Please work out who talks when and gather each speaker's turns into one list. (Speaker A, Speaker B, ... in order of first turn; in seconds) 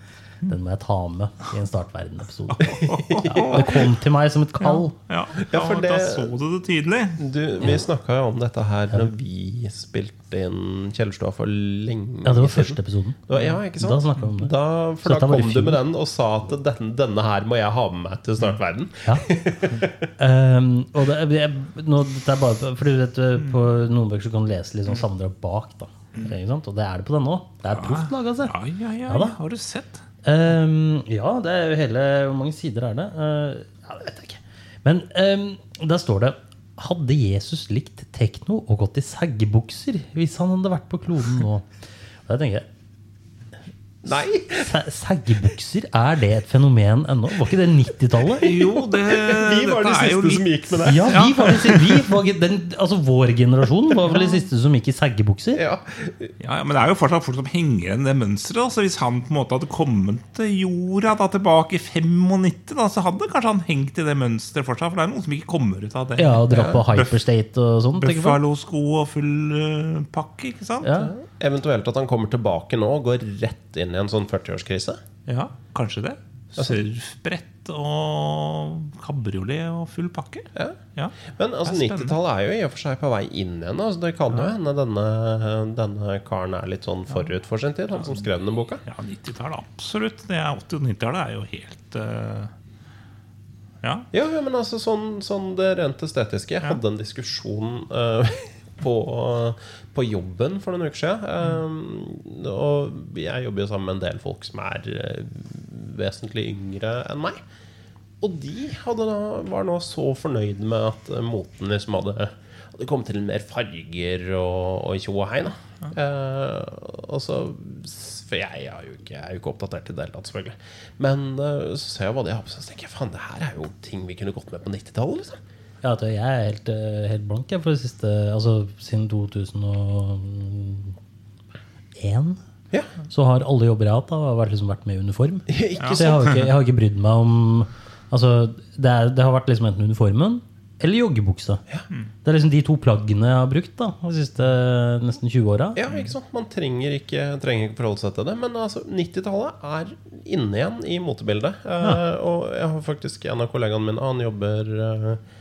Speaker A: 0.5-4.9, 12.2-13.2, 13.7-15.8, 20.2-28.5, 29.1-29.4, 30.2-41.6, 42.3-42.6, 44.5-48.5, 50.8-55.6, 66.2-68.4, 70.8-71.1, 125.8-130.9, 132.0-132.4, 133.1-141.6, 142.2-145.8
Speaker B: 2.6-3.8, 4.6-7.2, 27.7-30.0, 48.4-51.9, 56.4-67.2, 68.0-70.9, 75.3-82.2, 88.8-92.5, 135.8-136.2
Speaker C: 2.6-3.8, 5.4-6.4, 7.2-20.1, 44.0-44.7, 48.4-51.5, 55.5-56.3, 66.5-66.8, 70.9-75.0, 76.5-76.8, 81.3-88.8, 94.1-107.4, 108.2-125.4, 135.5-136.3, 145.8-155.2